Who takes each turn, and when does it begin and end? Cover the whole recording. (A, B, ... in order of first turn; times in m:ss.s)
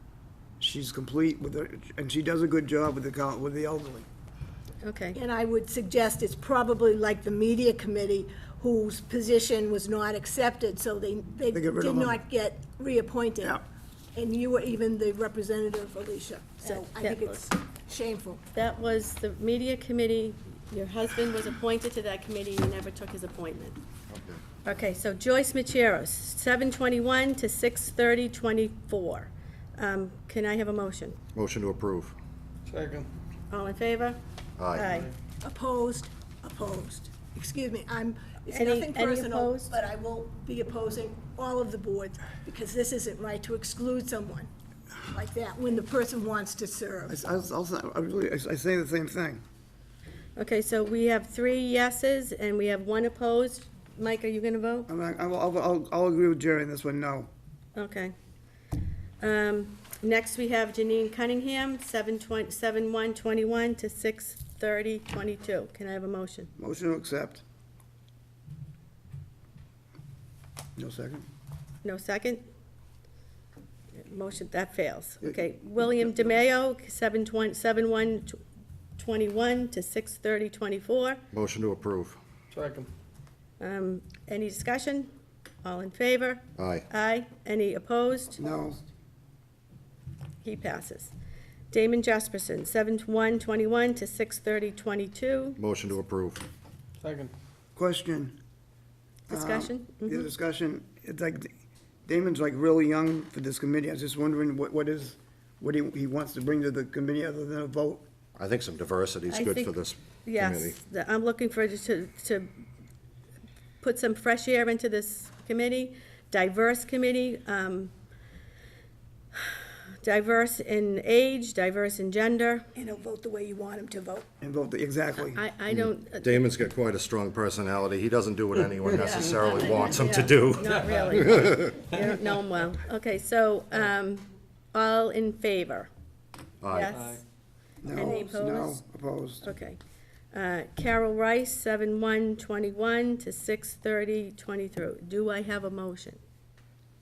0:00.6-0:04.0 A
0:04.8-0:05.2 B
0:05.1-0:13.6 C
0:11.5-0:12.2 A
0:14.1-0:18.4 C
0:16.6-0:17.5 B
0:18.5-0:23.8 B
0:24.1-0:24.4 D
0:24.6-0:31.2 B
0:31.3-0:32.2 D
0:32.6-0:33.1 E
0:33.5-0:34.2 B
0:34.6-0:35.0 D
0:34.7-0:35.1 B
0:34.8-0:35.1 E
0:35.4-0:44.5 C
0:38.5-0:39.8 B
0:45.1-0:47.2 C
0:47.1-0:49.4 A
0:50.4-0:54.9 B
0:54.9-0:57.3 A
0:57.8-0:58.1 B
0:59.2-1:06.5 B
1:06.6-1:07.4 A
1:10.8-1:11.3 A
1:11.8-1:12.4 B
1:14.0-1:18.4 B
1:19.0-1:21.2 B
1:21.3-1:22.2 D
1:22.5-1:22.9 E
1:23.6-1:25.1 B
1:25.6-1:28.5 B
1:26.6-1:26.8 D
1:28.4-1:28.8 A
1:30.4-1:31.1 B
1:31.7-1:35.6 B
1:35.6-1:36.4 D
1:37.0-1:37.3 E
1:37.8-1:38.4 A
1:39.3-1:40.3 B
1:39.3-1:41.5 A
1:42.0-1:48.0 A
1:48.4-1:50.8 D
1:49.3-1:52.5 B
1:53.8-1:57.9 B
1:59.3-2:02.7 B
2:02.7-2:04.3 C
2:04.4-2:05.4 A
2:05.3-2:06.4 B
2:05.7-2:11.8 D
2:08.9-2:09.9 E
2:09.7-2:15.9 B
2:10.6-2:12.3 E
2:16.6-2:16.9 D
2:16.7-2:17.2 B
2:16.8-2:17.2 E
2:17.8-2:19.5 A
2:17.9-2:18.8 B
2:19.4-2:19.8 B
2:20.3-2:26.2 B